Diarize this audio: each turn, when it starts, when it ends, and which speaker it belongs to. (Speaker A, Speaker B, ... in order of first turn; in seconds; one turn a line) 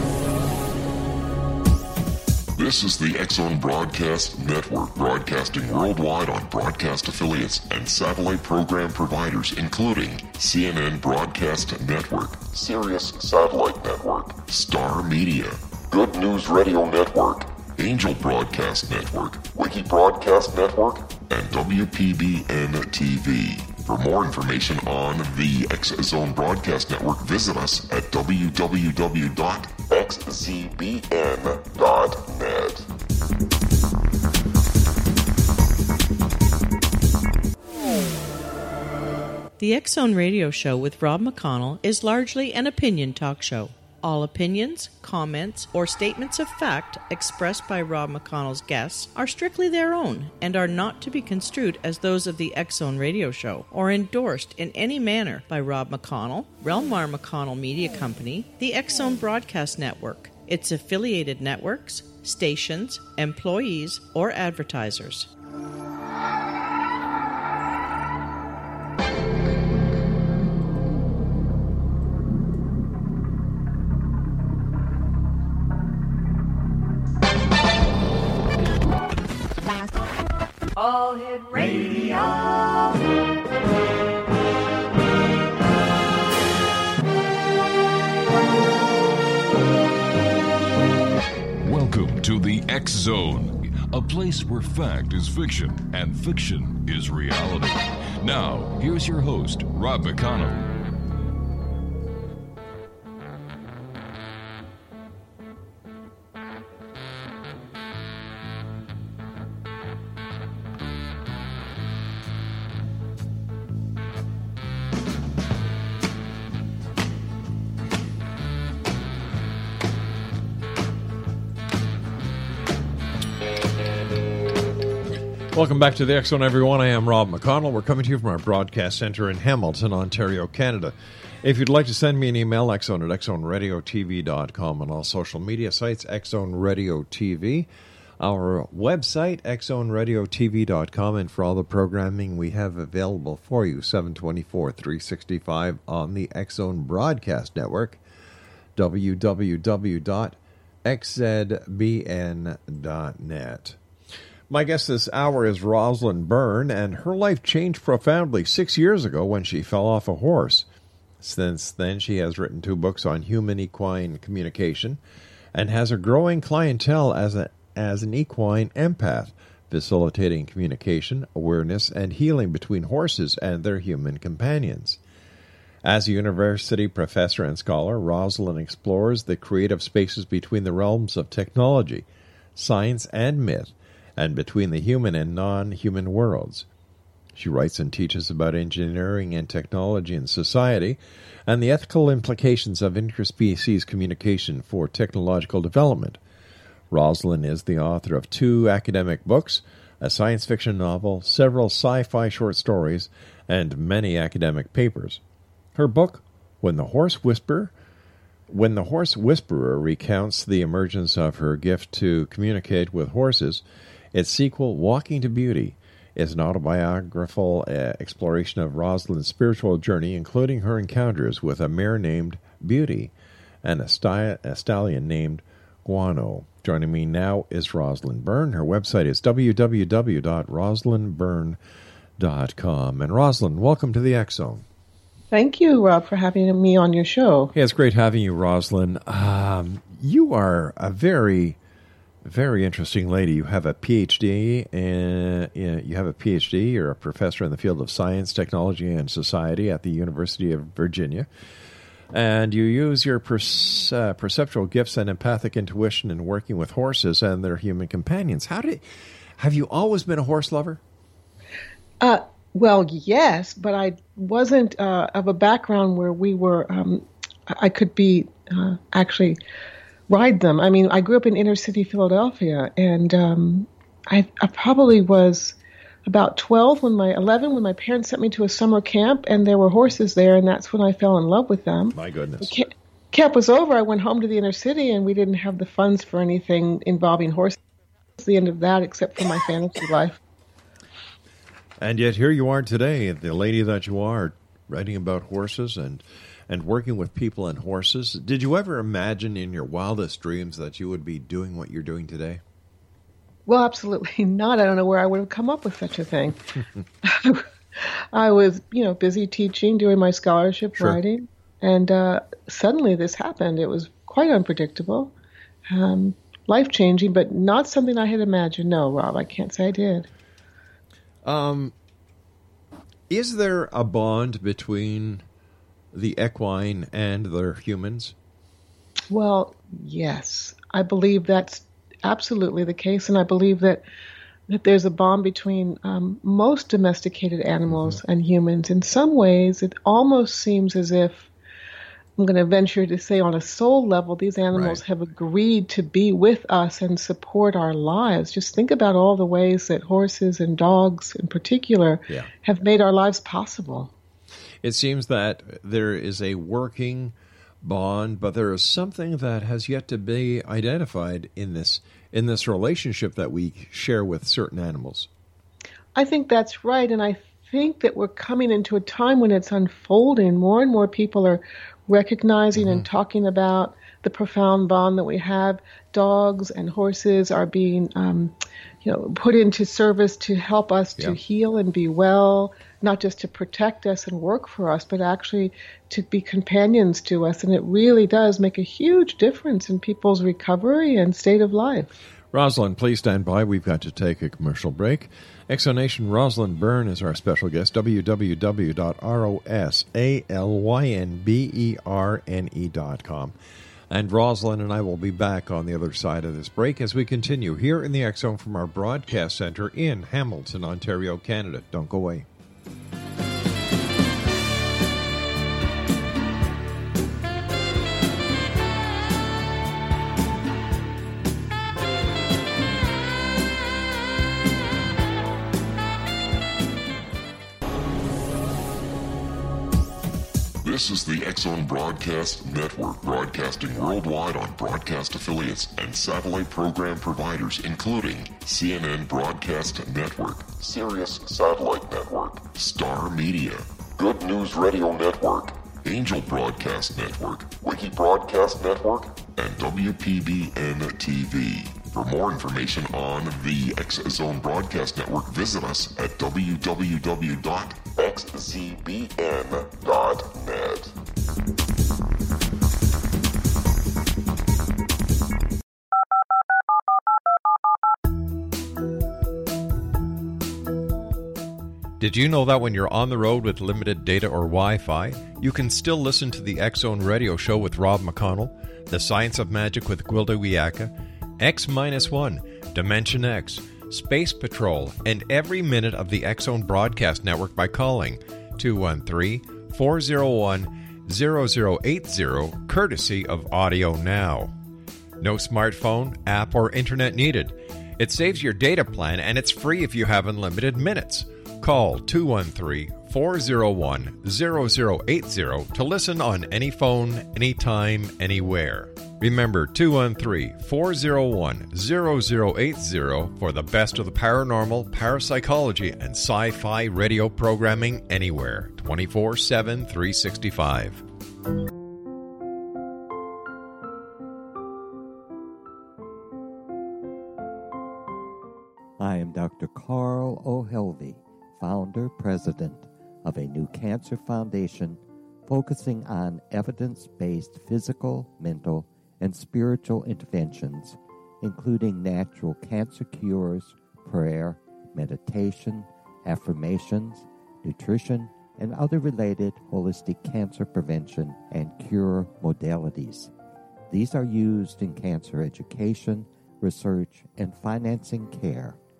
Speaker A: 2.6-32.9
Speaker B: 39.6-65.3
Speaker C: 91.6-100.7
Speaker D: 125.5-137.7
Speaker D: 138.2-148.0
Speaker D: 148.8-153.8
Speaker D: 154.5-160.7
Speaker D: 161.2-165.0
Speaker D: 165.6-175.0
Speaker D: 175.8-186.7
Speaker D: 187.3-196.2
Speaker D: 196.9-205.2
Speaker D: 205.8-207.7
Speaker D: 208.5-213.6
Speaker D: 214.1-231.6
Speaker D: 232.2-234.6
Speaker E: 235.3-237.5
Speaker D: 237.5-241.6
Speaker D: 242.2-251.3
Speaker D: 252.1-258.9
Speaker D: 259.4-260.8
Speaker E: 262.0-269.4
Speaker E: 270.1-287.6
Speaker D: 281.9-282.6
Speaker E: 288.2-290.2
Speaker D: 291.8-302.4
Speaker E: 303.5-306.4
Speaker E: 307.0-315.1
Speaker E: 315.7-320.1
Speaker D: 321.2-321.7
Speaker D: 323.1-325.2
Speaker D: 325.9-328.1
Speaker E: 329.1-333.8
Speaker E: 334.5-341.3
Speaker D: 337.7-338.0
Speaker E: 342.2-353.9
Speaker D: 344.5-344.8
Speaker D: 354.6-365.1
Speaker E: 365.9-391.9
Speaker D: 372.6-372.9
Speaker D: 392.3-403.4
Speaker D: 403.9-412.3
Speaker A: 430.6-460.9
Speaker D: 472.0-494.5
Speaker D: 495.2-521.0
Speaker F: 529.0-553.3
Speaker F: 553.9-558.8